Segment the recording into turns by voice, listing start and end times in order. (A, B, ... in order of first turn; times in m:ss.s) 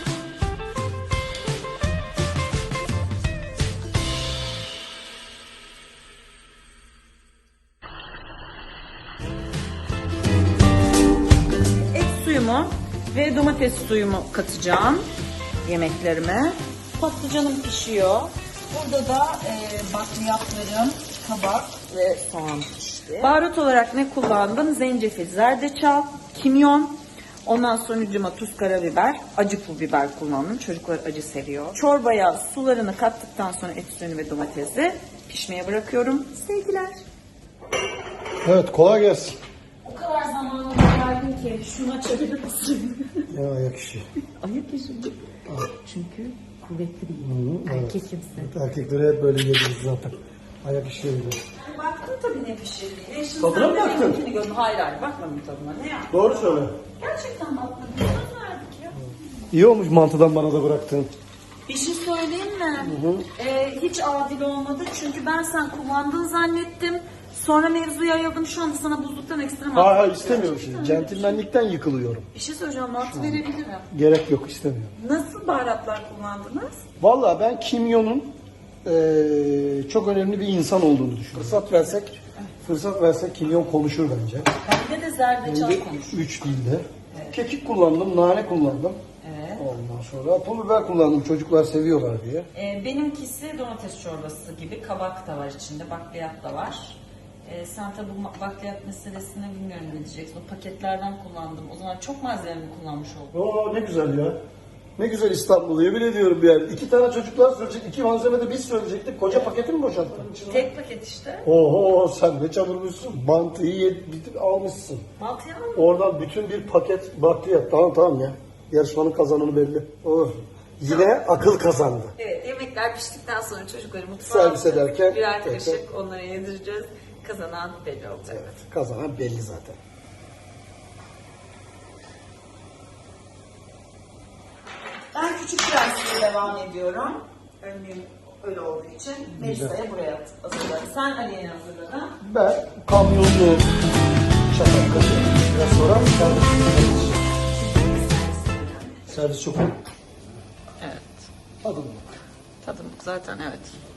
0:11.8-0:15.1 A
0:15.6-0:37.0 A
0:38.4-0:39.4 B
0:39.8-0:43.3 A
0:43.3-0:44.0 B
0:44.4-0:48.5 A
0:47.2-0:51.4 B
0:51.5-0:59.4 A
0:53.4-0:54.2 B
0:56.1-0:56.7 B
0:59.0-1:01.1 B
1:01.7-1:11.4 A
1:02.8-1:03.3 B
1:09.7-1:12.3 B
1:12.3-1:13.9 A
1:13.0-1:14.9 B
1:15.0-1:16.8 A
1:17.0-1:24.5 B
1:21.3-1:22.5 A
1:24.6-1:26.3 A
1:25.4-1:29.0 B
1:27.1-1:27.4 A
1:29.2-1:29.7 A
1:29.6-1:32.5 B
1:32.5-1:43.4 A
1:43.3-1:44.4 B
1:45.0-1:50.7 B
1:50.5-1:51.5 A
1:51.4-1:55.1 B
1:55.2-1:55.8 A
1:55.8-2:02.2 B
2:02.2-2:08.5 A
2:04.2-2:05.8 B
2:08.3-2:09.8 B
2:15.1-2:22.2 A
2:19.3-2:19.8 B
2:22.2-2:23.7 B
2:24.5-2:27.2 B
2:27.2-2:29.1 A
2:29.1-2:29.8 B
2:30.8-2:31.3 A
2:31.6-2:32.2 B
2:32.6-2:33.8 A